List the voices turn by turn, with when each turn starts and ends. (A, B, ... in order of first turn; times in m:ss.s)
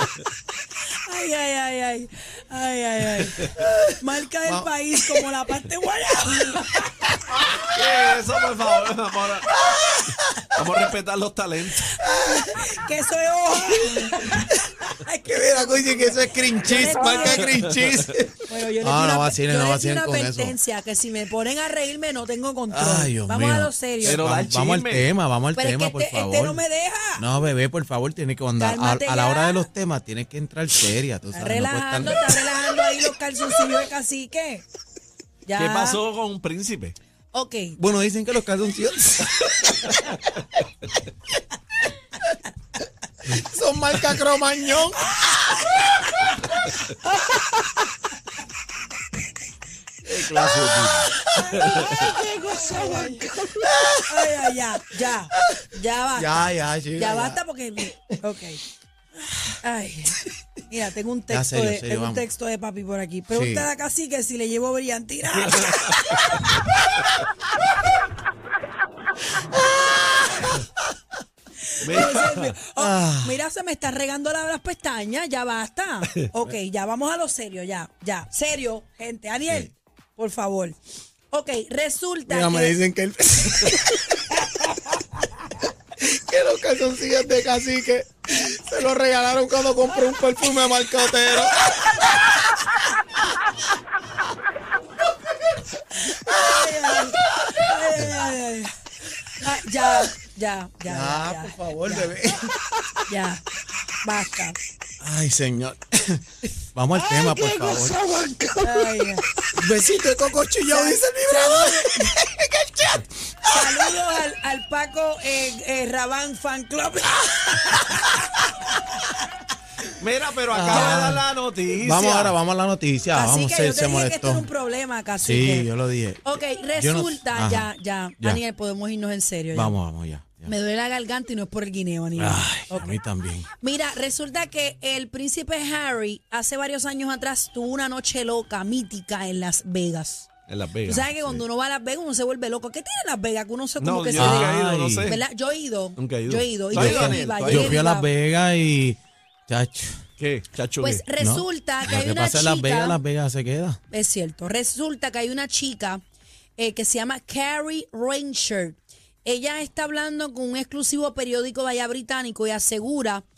0:01.0-0:07.2 A
0:03.4-0:04.0 B
0:04.5-0:05.2 B
0:07.4-0:07.6 B
0:07.7-0:09.5 C
0:09.6-0:10.5 B
0:10.5-0:12.0 C
0:12.0-0:16.1 A
0:12.0-0:12.7 B
0:14.3-0:14.5 B
0:15.2-0:20.6 B
0:16.6-0:17.6 A
0:17.4-0:17.9 C
0:18.5-0:24.2 A
0:22.7-0:26.6 B
0:24.0-0:25.1 C
0:25.6-0:27.2 A
0:27.2-0:32.4 B
0:28.6-0:29.6 A
0:31.3-0:34.6 A
0:35.5-0:36.0 A
0:35.6-0:37.0 C
0:37.3-0:37.8 A
0:37.8-0:40.1 B
0:43.2-0:45.6 B
0:50.1-0:54.5 B
0:50.1-0:52.1 C
0:52.5-0:53.3 A
0:54.1-0:58.6 A
0:55.5-0:57.4 B
0:59.5-1:06.4 A
1:01.3-1:02.2 B
1:03.3-1:03.7 B
1:05.6-1:06.3 C
1:11.7-1:20.8 A
1:11.8-1:12.6 C
1:12.8-1:13.4 B
1:21.3-1:22.8 A
1:22.3-1:24.4 B
1:26.0-1:32.1 B
1:36.2-1:38.8 A
1:36.3-1:38.1 B
1:39.4-1:42.4 A
1:40.9-1:43.1 B
1:43.1-1:43.4 A
1:44.0-1:44.6 A
1:45.0-1:54.0 B
1:48.6-1:49.3 A
1:50.7-1:52.2 A
1:53.5-1:58.2 A
1:57.6-1:58.0 B
1:59.9-2:02.4 C
2:00.5-2:04.5 B
2:00.7-2:01.1 A
2:03.1-2:05.7 A
2:05.2-2:08.4 B
2:06.2-2:09.8 A
2:09.5-2:10.5 B
2:10.4-2:13.0 A
2:12.2-2:13.5 B
2:13.6-2:20.3 A
2:20.5-2:21.4 C
2:20.8-2:28.1 A
2:23.8-2:25.2 C
2:24.2-2:25.2 B
2:26.0-2:27.8 C
2:26.7-2:30.0 B
2:30.2-2:31.0 C
2:30.8-2:33.0 A
2:31.2-2:33.8 B
2:33.9-2:36.0 A
2:36.6-2:43.2 A